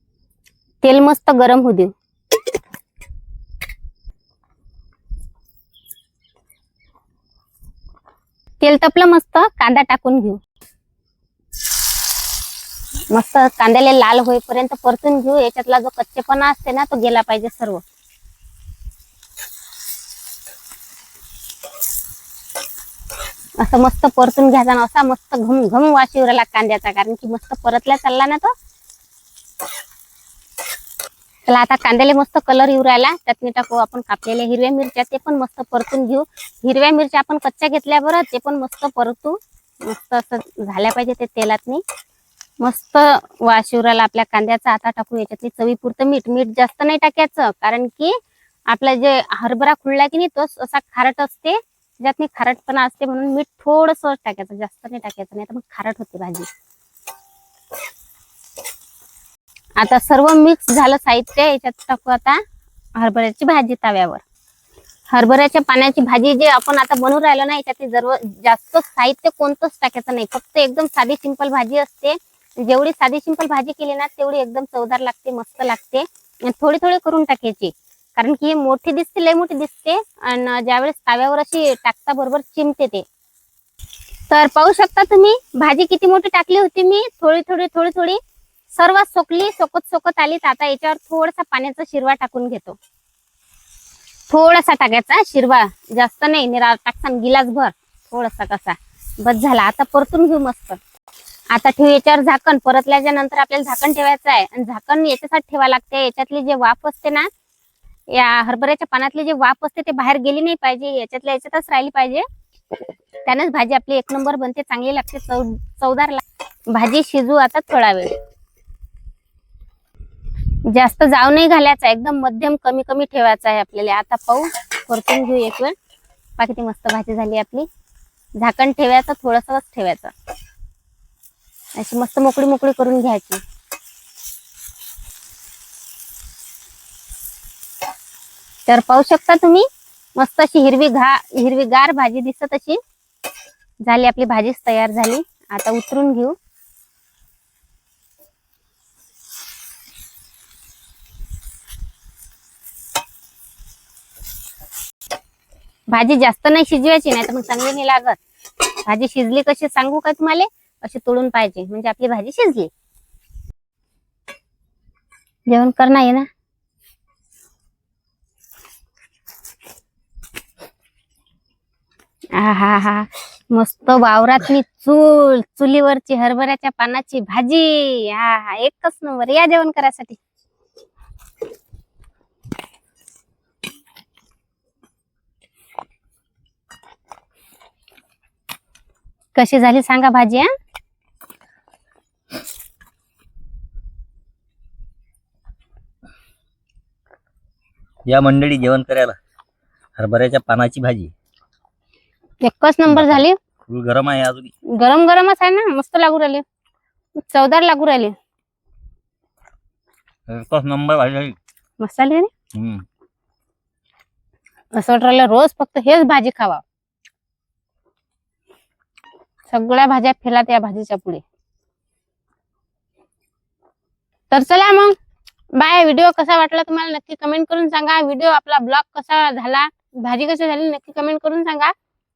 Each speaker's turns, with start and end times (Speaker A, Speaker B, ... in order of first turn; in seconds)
Speaker A: 0.8-1.9, 8.6-10.4, 13.1-17.8, 23.6-28.5, 31.5-41.8, 42.6-56.5, 59.8-62.4, 63.0-64.2, 65.1-83.0, 84.3-88.2, 88.7-92.8, 94.3-100.8, 101.5-107.3, 108.1-112.2, 113.2-118.1, 120.7-125.7, 126.4-127.7, 128.4-130.1, 131.8-133.4, 138.7-142.8, 143.8-146.3, 155.9-158.2, 158.8-162.7, 165.5-166.3, 172.3-180.2, 189.3-190.5, 202.4-203.4, 204.7-206.4, 207.2-208.1, 211.8-212.3, 214.7-216.6, 219.5-221.2, 224.3-224.9, 225.5-231.7
Speaker B: 198.1-199.2, 200.0-201.1, 202.9-204.5, 210.3-211.4, 212.5-212.8